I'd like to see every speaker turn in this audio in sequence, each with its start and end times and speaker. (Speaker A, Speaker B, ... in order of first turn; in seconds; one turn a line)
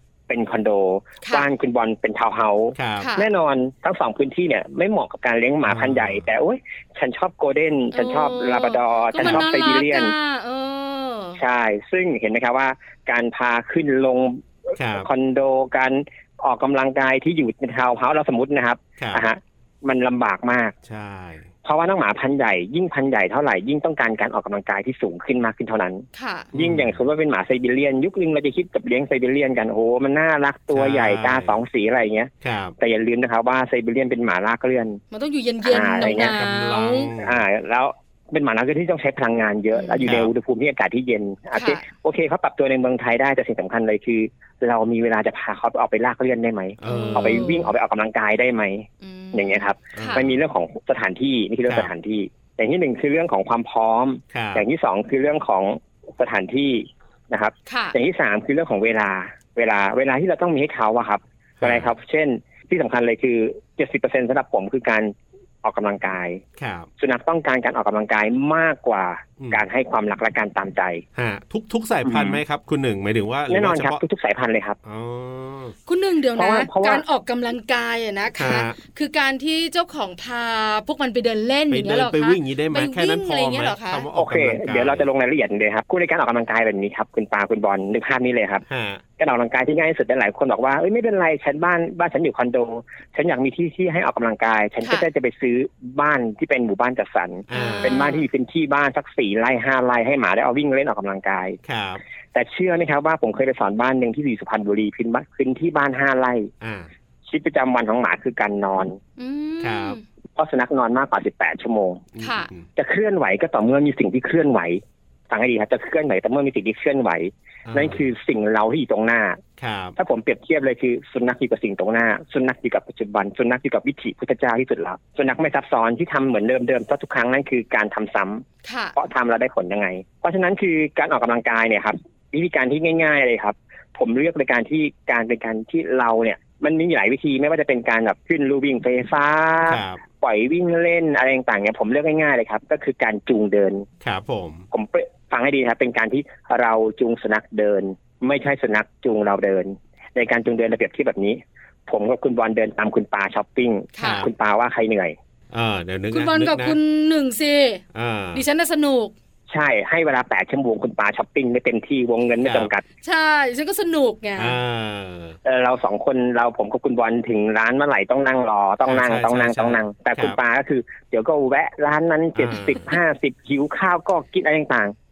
Speaker A: 0.3-10.1
Speaker B: 2.8-3.1
Speaker C: 3.0-3.3
Speaker B: 5.7-6.3
Speaker C: 7.9-11.4
Speaker B: 9.2-9.5
Speaker A: 11.4-20.8
Speaker B: 14.8-15.1
Speaker B: 19.0-19.2
Speaker B: 20.9-21.5
Speaker A: 21.6-35.0
Speaker C: 26.1-26.5
Speaker B: 26.5-27.0
Speaker B: 30.7-31.6
Speaker B: 32.4-32.8
Speaker C: 35.1-37.1
Speaker A: 35.6-36.4
Speaker B: 36.1-37.4
Speaker A: 37.2-66.4
Speaker C: 39.7-40.1
Speaker B: 40.0-40.3
Speaker C: 41.5-41.8
Speaker B: 46.8-47.6
Speaker C: 46.9-47.7
Speaker C: 49.0-50.2
Speaker B: 50.0-50.4
Speaker B: 54.3-54.6
Speaker C: 57.7-58.0
Speaker B: 61.6-61.9
Speaker B: 66.6-66.9
Speaker A: 67.0-71.0
Speaker B: 71.2-74.0
Speaker A: 72.0-72.4
Speaker A: 73.5-74.8
Speaker B: 74.8-75.8
Speaker C: 75.9-84.1
Speaker A: 76.4-77.0
Speaker B: 78.4-78.8
Speaker B: 81.7-85.1
Speaker A: 84.2-88.6
Speaker B: 88.7-89.0
Speaker A: 89.2-101.6
Speaker B: 97.5-98.1
Speaker C: 97.5-98.2
Speaker B: 101.7-102.0
Speaker A: 102.3-106.5
Speaker B: 106.6-106.9
Speaker A: 107.3-109.0
Speaker C: 109.2-110.0
Speaker B: 109.6-110.0
Speaker A: 110.4-112.0
Speaker B: 112.2-112.6
Speaker C: 112.2-112.5
Speaker A: 112.8-119.4
Speaker B: 117.7-118.0
Speaker B: 119.6-120.0
Speaker A: 120.0-143.9
Speaker C: 128.7-129.0
Speaker B: 139.7-140.0
Speaker B: 144.0-144.6
Speaker A: 144.7-155.2
Speaker C: 154.0-154.3
Speaker B: 154.0-154.3
Speaker B: 155.5-156.8
Speaker C: 156.1-159.1
Speaker B: 157.9-158.4
Speaker A: 159.5-162.8
Speaker B: 162.4-162.7
Speaker C: 163.0-164.6
Speaker B: 164.4-165.4
Speaker A: 165.4-174.9
Speaker B: 168.9-170.4
Speaker B: 172.4-172.9